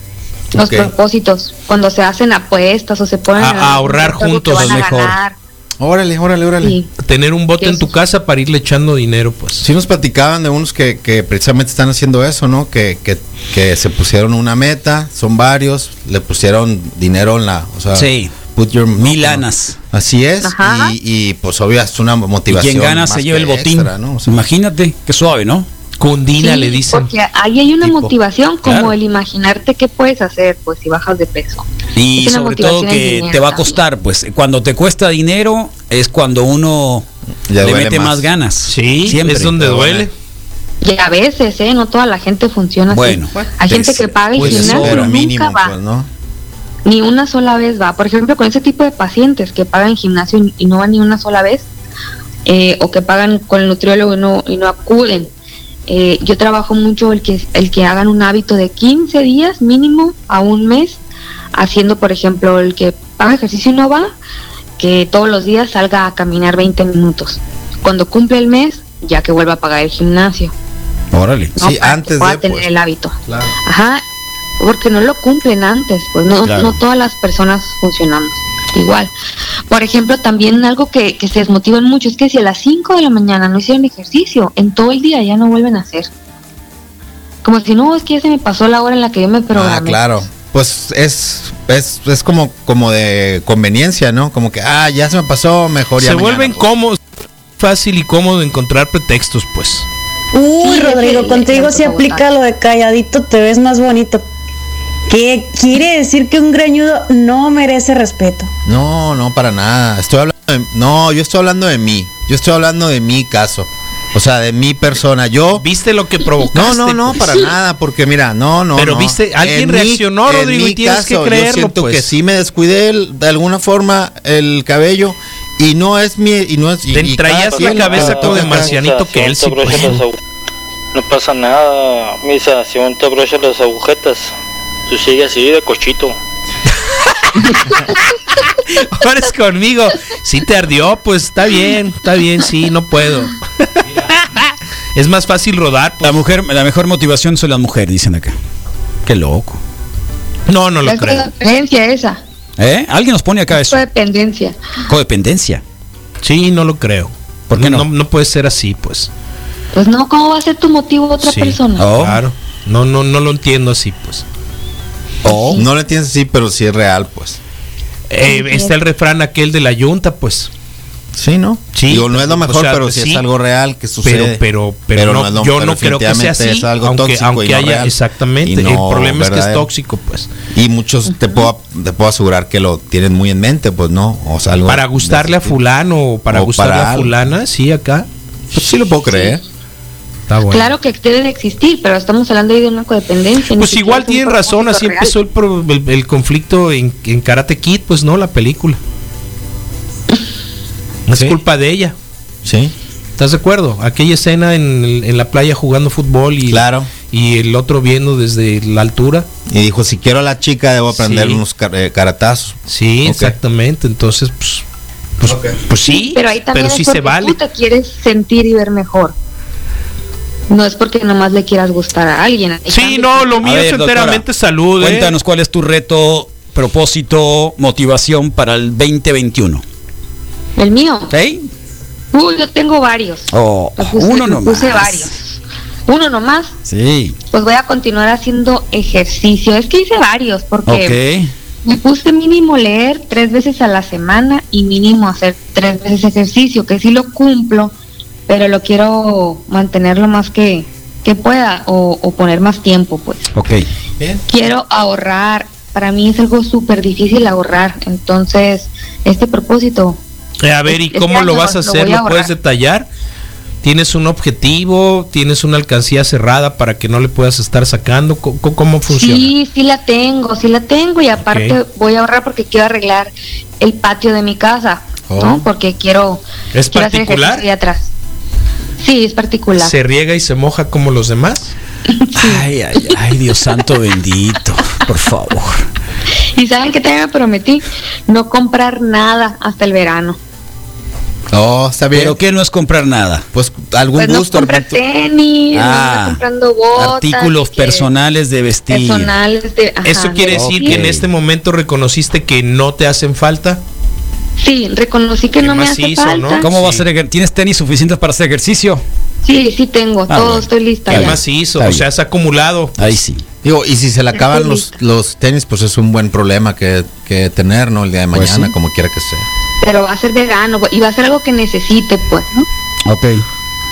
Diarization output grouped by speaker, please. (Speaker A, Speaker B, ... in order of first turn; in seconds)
Speaker A: 0.5-5.4, 6.6-6.9, 7.6-7.9, 20.4-20.9, 26.4-31.6, 32.2-33.8, 40.8-45.8, 46.9-51.7, 52.5-55.3, 55.9-61.0, 61.5-64.2, 64.8-70.5, 71.6-74.0, 74.6-79.1, 79.7-86.1, 87.4-90.0, 100.6-102.3, 150.8-152.2, 153.6-154.6, 159.7-161.9, 165.2-165.6, 168.2-168.7, 181.1-181.5, 189.1-189.4, 190.5-195.1, 216.1-219.2, 220.5-223.4, 230.6-231.1, 232.1-236.6, 237.3-241.0, 241.6-247.7, 248.3-253.3, 254.3-260.0, 260.7-262.3, 268.9-277.9, 278.8-279.7, 281.9-283.0, 286.4-290.2, 294.0-297.9, 298.7-300.8, 304.4-306.5, 309.2-311.2, 314.1-314.7, 319.6-322.5
Speaker B: 0.5-0.9, 5.8-6.8, 9.6-24.5, 37.5-38.3, 39.6-40.1, 43.3-46.1, 71.6-72.7, 73.3-73.5, 89.5-96.7, 108.7-115.7, 116.5-128.8, 165.5-167.4, 171.2-174.4, 174.9-179.7, 180.5-185.6, 186.3-187.1, 188.5-189.4, 201.1-201.4, 202.4-202.7, 206.5-206.9, 209.5-213.3, 215.3-215.6, 275.1-275.4, 291.3-292.2, 293.3-294.8, 313.4-319.3
Speaker C: 3.4-5.0, 7.0-9.7, 26.0-27.1, 38.7-40.1, 44.4-45.0, 96.0-97.0, 97.6-99.9, 115.6-117.4, 118.8-122.1, 126.9-130.0, 137.3-137.6, 138.7-146.2, 150.5-151.2, 156.2-159.1, 161.9-164.2, 168.1-170.5, 171.7-173.2, 174.0-180.3, 184.7-188.1, 190.3-190.7, 193.6-198.8, 201.1-201.9, 203.2-209.3, 210.9-211.4, 212.7-214.6, 215.2-217.4, 222.7-225.2, 260.4-262.9, 263.6-269.3, 271.2-271.6, 276.5-277.4, 279.6-281.5, 299.9-303.6, 305.4-306.9, 310.9-313.0
Speaker D: 4.6-5.2, 17.9-18.3, 19.0-19.8, 22.5-25.7, 27.9-28.1, 28.6-28.9, 31.9-37.1, 37.6-39.6, 42.9-43.3, 44.4-45.0, 71.1-71.6, 76.5-76.8, 146.0-148.4, 149.1-149.6, 152.6-153.8, 154.9-155.6, 157.5-157.9, 161.8-162.2, 165.2-165.6, 223.4-224.2, 224.8-229.6, 231.1-231.5, 233.3-235.1, 236.7-237.2, 240.7-241.3, 253.3-253.7, 282.1-285.7, 291.9-293.3, 295.5-296.2, 296.8-299.1, 300.3-301.1, 306.4-308.8, 310.1-311.9, 312.8-313.2, 318.1-318.5, 322.9-323.2
Speaker E: 100.3-104.2, 105.1-108.5
Speaker F: 127.6-130.2, 130.9-134.3, 134.9-136.2